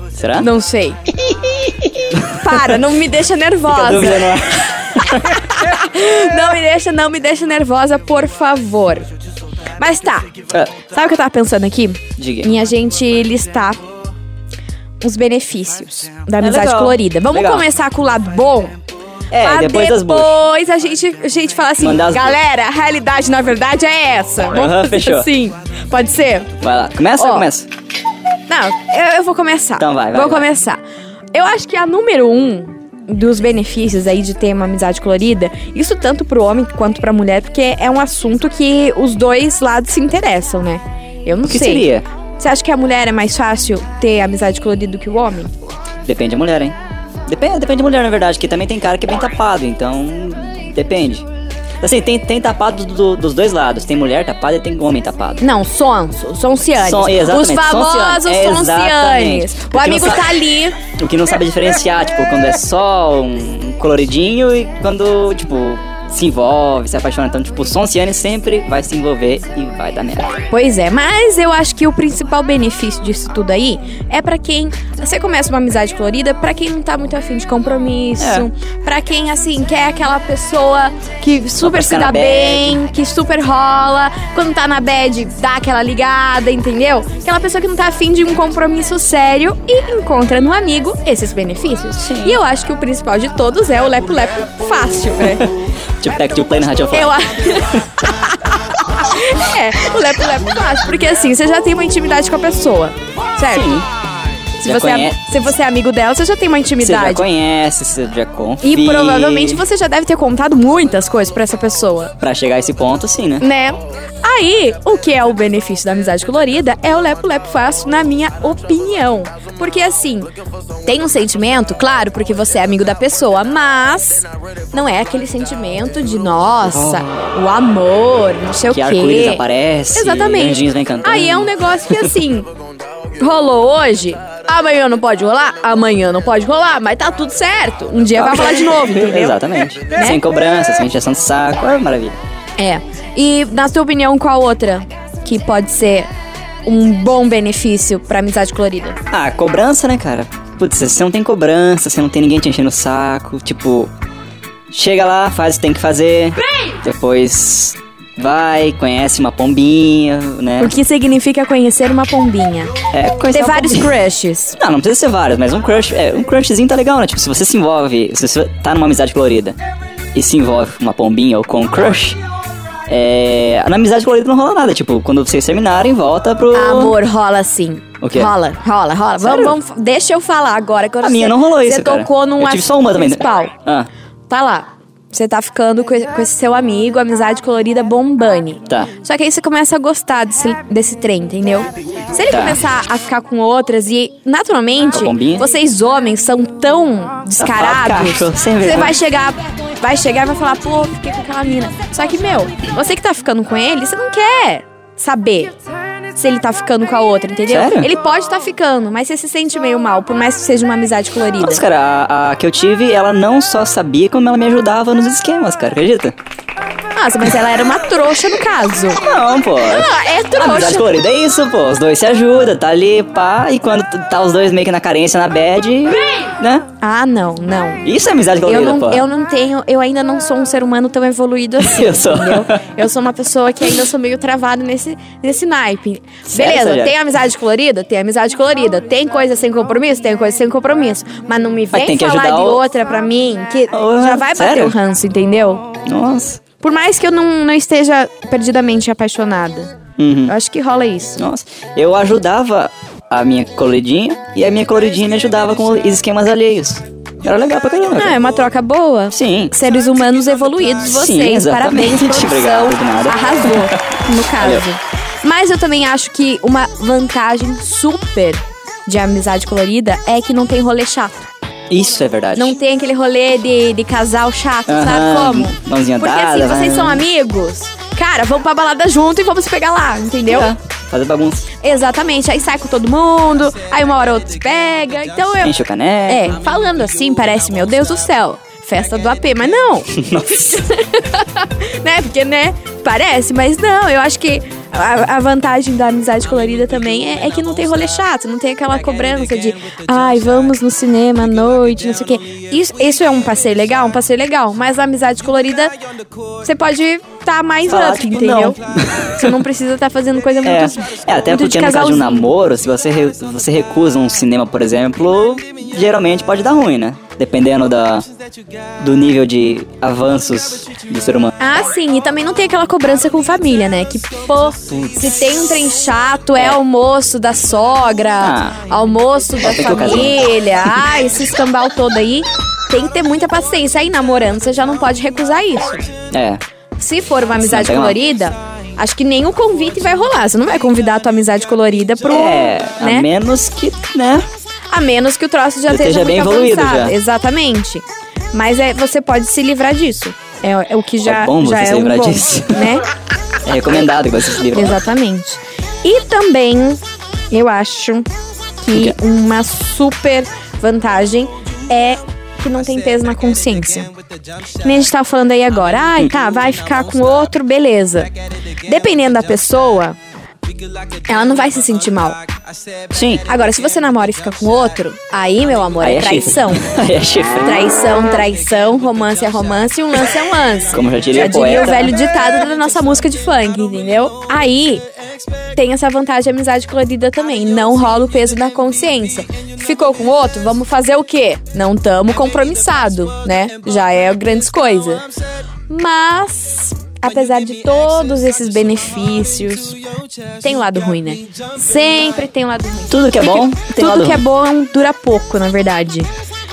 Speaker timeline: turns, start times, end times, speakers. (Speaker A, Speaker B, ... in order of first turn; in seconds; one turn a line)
Speaker A: 0.1-0.5
Speaker B: 0.4-1.0
Speaker A: 1.3-2.7
Speaker B: 2.2-9.1
Speaker A: 3.7-5.4
Speaker B: 9.8-13.8
Speaker A: 12.2-12.5
Speaker B: 15.0-18.7
Speaker A: 16.4-17.6
Speaker A: 19.3-20.3
Speaker B: 19.3-26.5
Speaker A: 21.8-22.4
Speaker A: 24.5-25.3
Speaker A: 26.6-27.7
Speaker B: 27.1-27.5
Speaker B: 28.5-30.8
Speaker A: 29.8-30.5
Speaker B: 31.3-45.5
Speaker A: 41.4-42.0
Speaker A: 46.0-46.8
Speaker A: 47.3-51.3
Speaker A: 51.8-55.4
Speaker B: 55.4-60.8
Speaker A: 56.8-70.4
Speaker B: 70.5-95.5
Speaker A: 78.2-78.5
Speaker A: 81.6-82.8
Speaker A: 92.0-92.4
Speaker A: 95.3-97.6
Speaker B: 96.9-103.8
Speaker A: 103.5-103.9
Speaker B: 104.6-107.2
Speaker A: 104.6-105.2
Speaker A: 106.8-109.6
Speaker B: 108.6-112.1
Speaker A: 112.2-113.5
Speaker B: 113.4-120.3
Speaker B: 120.8-132.5
Speaker A: 126.6-127.2
Speaker A: 128.7-132.2
Speaker B: 133.2-139.4
Speaker A: 138.2-142.2
Speaker B: 139.9-140.2
Speaker B: 142.6-146.1
Speaker B: 146.6-149.0
Speaker A: 149.1-153.9
Speaker A: 154.7-160.8
Speaker B: 160.6-162.8
Speaker A: 162.9-163.9
Speaker B: 163.3-164.6
Speaker A: 164.6-169.6
Speaker A: 170.1-172.2
Speaker A: 172.9-176.9
Speaker B: 176.5-183.5
Speaker A: 178.0-178.3
Speaker A: 179.2-179.6
Speaker A: 181.0-183.9
Speaker B: 184.3-205.6
Speaker A: 192.3-192.6
Speaker A: 194.9-195.4
Speaker A: 197.4-199.0
Speaker B: 206.1-211.6
Speaker A: 207.5-207.9
Speaker A: 211.4-216.2
Speaker B: 216.9-219.0
Speaker A: 218.9-226.7
Speaker B: 219.6-220.9
Speaker B: 226.8-227.9
Speaker A: 227.8-229.1
Speaker B: 228.4-245.7
Speaker A: 231.6-232.6
Speaker A: 236.3-236.9
Speaker A: 241.7-242.6
Speaker A: 243.7-244.8
Speaker A: 245.8-246.4
Speaker B: 246.6-249.7
Speaker A: 250.0-250.3
Speaker B: 250.2-251.2
Speaker A: 251.2-258.2
Speaker B: 257.9-271.3
Speaker A: 259.1-259.5
Speaker A: 260.9-264.6
Speaker A: 271.7-272.6
Speaker B: 272.3-280.5
Speaker A: 274.7-277.0
Speaker A: 280.3-281.5
Speaker B: 281.6-285.6
Speaker A: 285.4-286.3
Speaker B: 286.1-289.9
Speaker A: 289.9-290.7
Speaker B: 290.5-305.7
Speaker B: 306.4-312.3
Speaker A: 307.7-309.4
Speaker A: 310.4-318.1
Speaker A: 318.8-321.3
Speaker B: 321.4-335.9
Speaker A: 324.7-325.1
Speaker A: 328.2-328.6
Speaker A: 329.4-330.2
Speaker A: 336.1-336.4
Speaker B: 336.8-343.1
Speaker A: 337.4-338.0
Speaker A: 342.1-344.3
Speaker B: 344.7-352.8
Speaker A: 345.7-346.9
Speaker A: 351.0-352.8
Speaker A: 353.4-354.8
Speaker B: 354.5-356.8
Speaker B: 357.3-358.1
Speaker B: 358.6-363.9
Speaker B: 364.6-368.1
Speaker B: 368.6-370.0
Speaker B: 371.1-372.2
Speaker A: 372.9-373.2
Speaker B: 373.2-376.6
Speaker A: 375.8-377.7
Speaker B: 377.4-384.8
Speaker A: 380.7-381.9
Speaker B: 385.6-395.1
Speaker B: 395.7-399.8
Speaker B: 400.4-406.1
Speaker A: 402.9-404.2